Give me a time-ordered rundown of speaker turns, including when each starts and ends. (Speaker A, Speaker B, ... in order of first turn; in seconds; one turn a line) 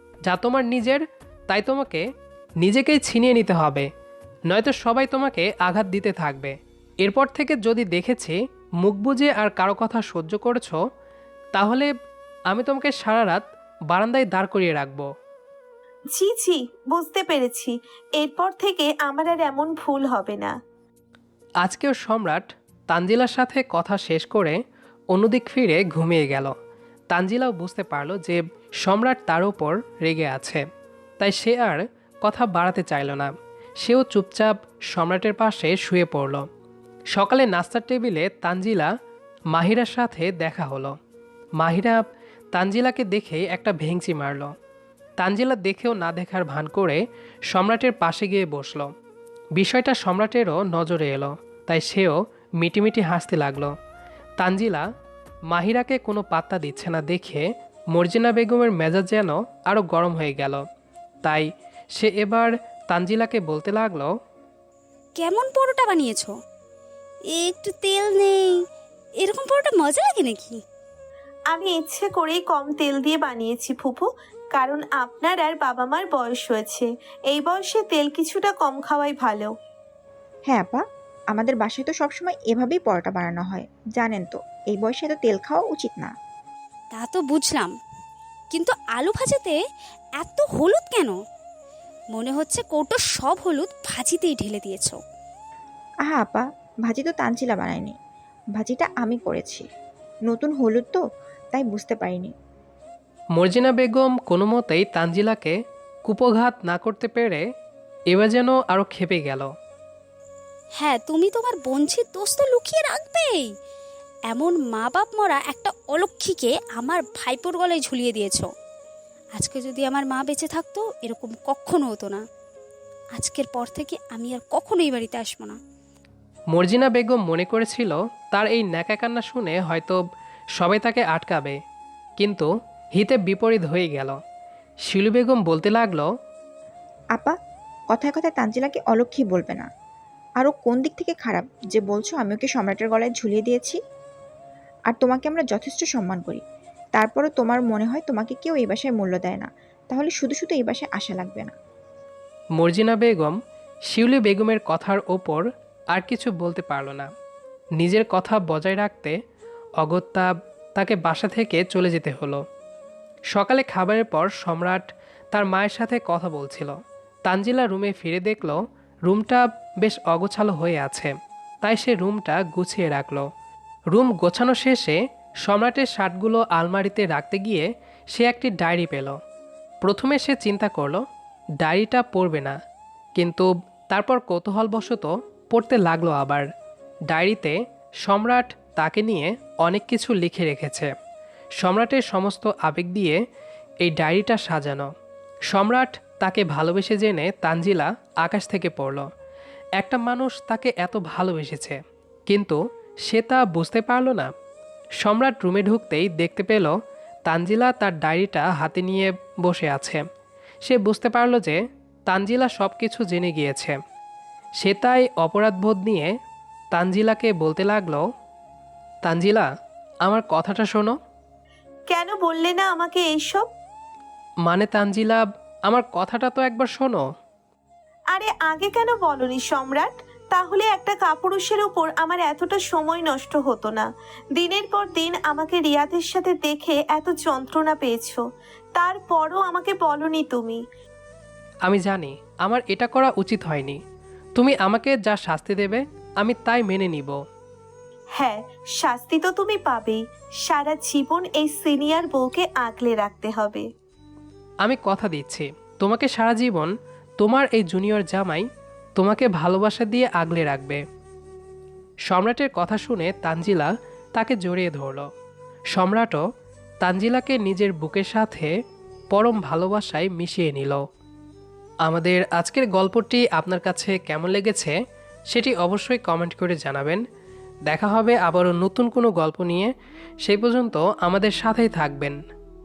Speaker A: 0.2-2.0
Speaker A: 2.6-3.9
Speaker A: 4.5-10.8
Speaker A: 11.5-11.9
Speaker A: 12.5-15.1
Speaker B: 16.1-20.5
Speaker A: 21.6-24.6
Speaker A: 25.1-26.5
Speaker A: 27.1-30.6
Speaker A: 31.2-36.5
Speaker A: 37.1-38.9
Speaker A: 39.5-41.0
Speaker A: 41.6-42.0
Speaker A: 42.5-44.5
Speaker A: 45.2-48.9
Speaker A: 49.5-53.7
Speaker A: 54.4-54.9
Speaker A: 55.5-60.6
Speaker A: 61.2-64.1
Speaker C: 65.2-66.3
Speaker C: 67.3-68.6
Speaker C: 69.2-70.6
Speaker B: 71.5-79.5
Speaker D: 80.5-86.1
Speaker C: 86.9-87.7
Speaker C: 88.5-89.6
Speaker C: 90.2-91.1
Speaker C: 92.1-95.0
Speaker D: 96.1-97.9
Speaker D: 98.5-99.7
Speaker D: 100.3-102.3
Speaker A: 103.3-107.4
Speaker A: 108.1-109.5
Speaker C: 110.8-113.5
Speaker C: 114.3-118.5
Speaker C: 119.3-122.2
Speaker C: 123.2-125.5
Speaker A: 126.5-130.0
Speaker A: 130.6-131.6
Speaker A: 132.2-134.2
Speaker A: 134.9-136.1
Speaker D: 137.9-139.7
Speaker D: 140.4-143.8
Speaker D: 144.9-146.4
Speaker D: 146.9-151.5
Speaker A: 152.6-153.4
Speaker A: 153.9-157.1
Speaker A: 157.8-159.2
Speaker A: 159.8-162.4
Speaker A: 163.3-171.1
Speaker A: 171.6-173.3
Speaker A: 173.9-179.2
Speaker A: 179.8-181.0
Speaker A: 181.6-182.6
Speaker A: 183.2-186.4
Speaker A: 187.1-190.9
Speaker A: 191.6-193.2
Speaker A: 193.8-194.9
Speaker A: 195.5-199.1
Speaker A: 199.8-204.3
Speaker A: 205.0-206.7
Speaker A: 207.3-210.0
Speaker A: 210.6-213.8
Speaker A: 214.6-216.1
Speaker A: 216.7-218.0
Speaker A: 219.0-219.5
Speaker A: 220.0-220.9
Speaker B: 221.9-223.5
Speaker A: 224.4-227.0
Speaker B: 228.1-240.6
Speaker A: 241.6-243.8
Speaker A: 244.3-247.2
Speaker B: 248.1-253.7
Speaker A: 254.6-258.4
Speaker A: 259.0-260.8
Speaker A: 262.1-265.1
Speaker A: 265.7-266.2
Speaker A: 266.8-268.5
Speaker A: 269.1-270.8
Speaker A: 271.9-274.8
Speaker A: 275.3-277.0
Speaker A: 277.6-279.7
Speaker A: 280.2-282.2